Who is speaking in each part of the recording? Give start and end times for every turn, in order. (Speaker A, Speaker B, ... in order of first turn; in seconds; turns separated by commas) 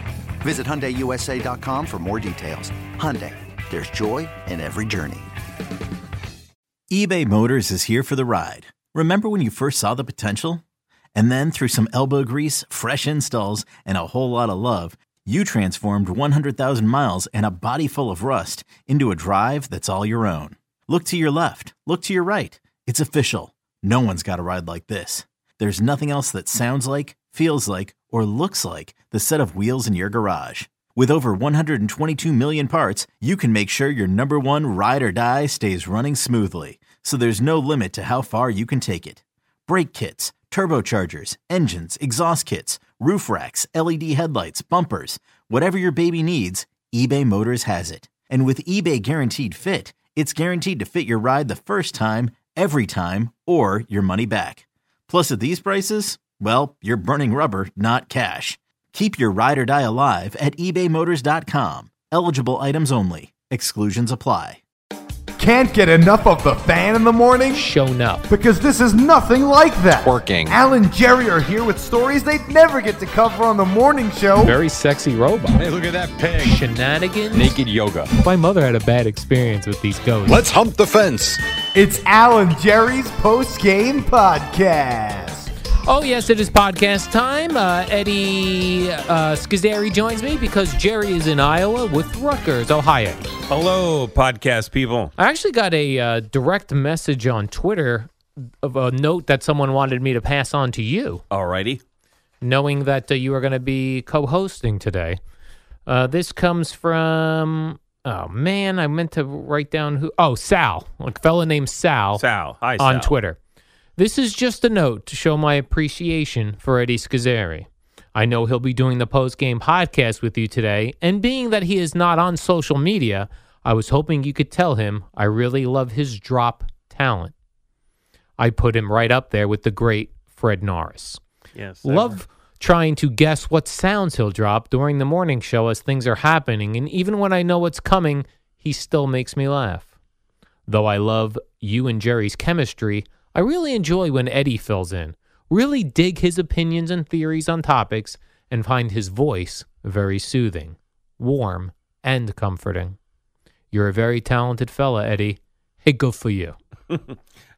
Speaker A: 0.4-5.3, Speaker B: 6.9-10.6, Speaker B: 11.2-64.6, Speaker C: 65.4-67.7, Speaker D: 67.5-68.3, Speaker C: 68.3-74.6, Speaker E: 70.0-70.6, Speaker D: 74.4-75.7, Speaker E: 75.6-76.6, Speaker D: 76.4-77.6, Speaker E: 77.3-78.1, Speaker D: 78.2-80.5, Speaker E: 80.3-81.4, Speaker C: 81.8-85.5, Speaker D: 85.8-93.2, Speaker F: 93.5-95.2, Speaker D: 95.2-101.2, Speaker F: 101.3-101.8, Speaker D: 102.4-105.2, Speaker D: 105.9-112.2, Speaker F: 112.2-113.2, Speaker D: 112.8-113.4, Speaker D: 114.0-127.3, Speaker D: 128.4-131.2, Speaker F: 131.6-132.2, Speaker D: 131.8-139.9, Speaker D: 140.7-153.0, Speaker D: 153.7-156.6, Speaker F: 156.9-157.2